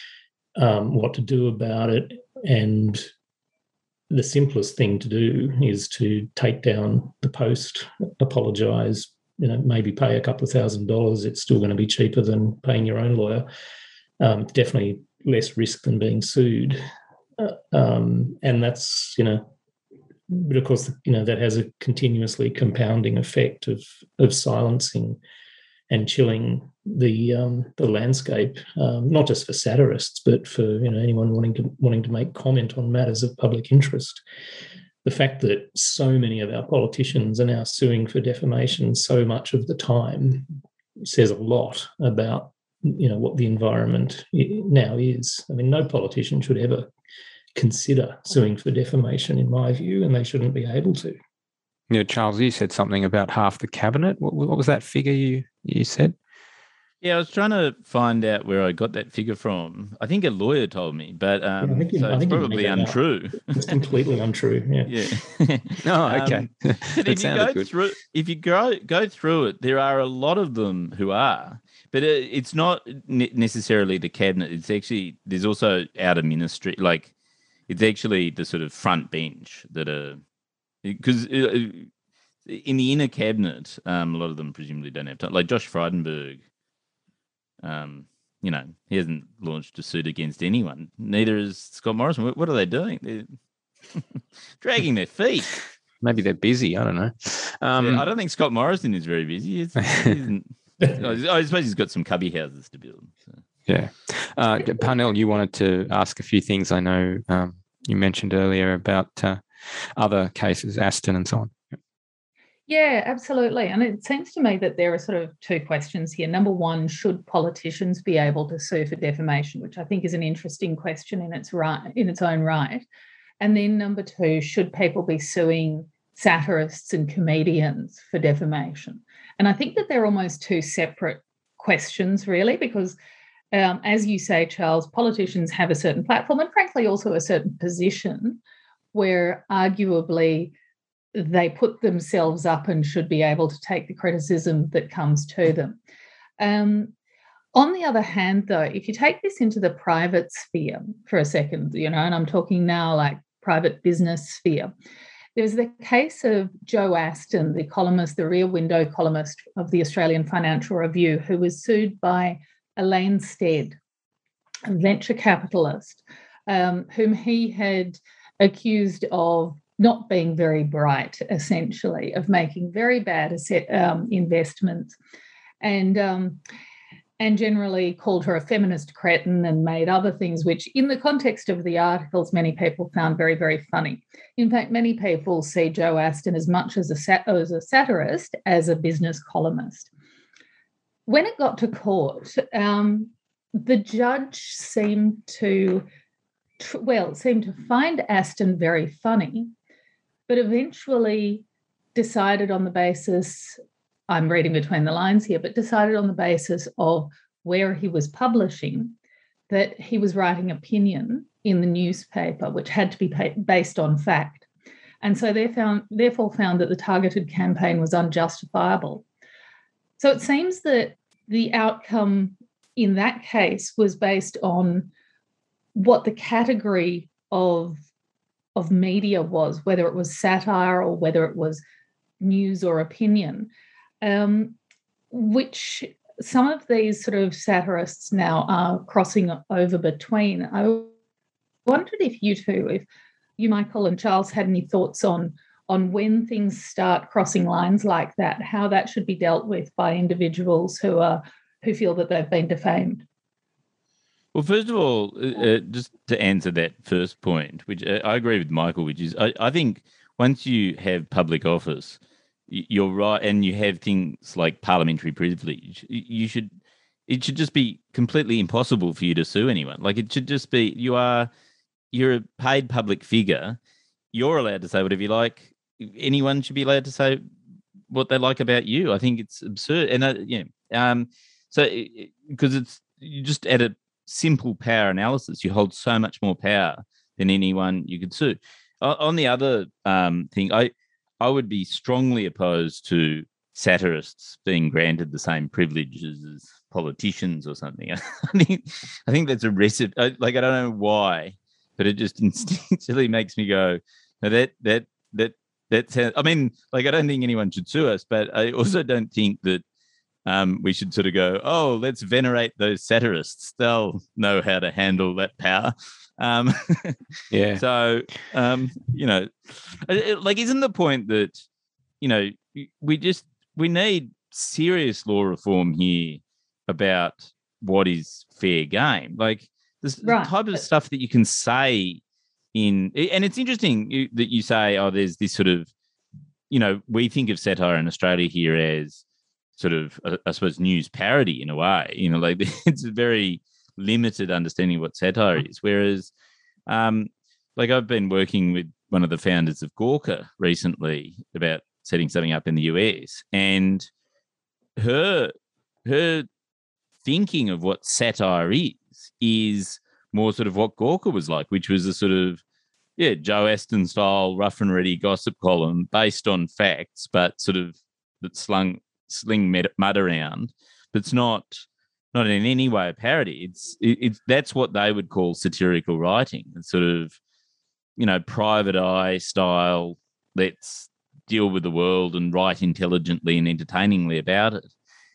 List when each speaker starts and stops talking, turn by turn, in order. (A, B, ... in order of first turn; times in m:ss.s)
0:00.6-0:03.1 A
0:04.1-0:13.5 A
0:14.2-0:16.8 A
0:17.4-0:19.5 A
0:20.3-0:25.2 A
0:25.9-0:34.2 A
0:35.0-0:46.9 A
0:47.5-0:51.2 A
0:51.9-0:56.2 B
0:57.0-1:03.7 C
1:01.6-1:03.0 A
1:03.5-1:04.9 A
1:04.9-1:17.1 C
1:05.8-1:07.7 B
1:17.7-1:20.2 C
1:20.8-1:21.9 C
1:22.5-1:26.4 C
1:27.6-1:33.4 C
1:34.6-1:35.6 C
1:36.0-1:38.1 B
1:37.8-1:43.4 C
1:43.7-1:49.4 B
1:50.0-1:51.5 B
1:52.7-2:02.8 D
2:03.4-2:13.0 D
2:13.5-2:18.4 D
2:18.9-2:20.5 D
2:21.1-2:25.8 D
2:26.4-2:26.9 D
2:27.5-2:34.7 D
2:35.4-2:43.8 D
2:44.7-2:54.9 D
2:55.6-2:56.4 D
2:57.2-3:09.9 D
3:11.1-3:15.9 D
3:16.6-3:19.5 D
3:20.3-3:21.4 D
3:21.9-3:23.6 D
3:24.1-3:28.9 D
3:29.5-3:34.5 D
3:35.0-3:39.0 D
3:40.0-3:44.9 D
3:45.7-3:47.8 D
3:48.6-3:51.6 D
3:52.2-3:53.5 D
3:54.0-3:54.6 D
3:55.1-4:00.9 D
4:01.6-4:02.8 D
4:03.4-4:13.1 D
4:14.3-4:26.6 C
4:27.1-4:31.3 C
4:31.9-4:33.6 C
4:34.1-4:37.2 C
4:37.9-5:09.6 C
5:10.2-5:17.0 C
5:17.3-5:17.6 B
5:17.6-5:21.4 C
5:22.0-5:32.0 C
5:30.0-5:30.6 D
5:32.5-5:35.7 C
5:36.5-5:39.0 C
5:39.6-5:46.1 C
5:46.7-5:53.9 C
5:54.8-5:55.3 C
5:55.8-5:56.3 C
5:57.0-6:02.4 C
6:03.0-6:17.2 C
6:18.0-6:24.7 C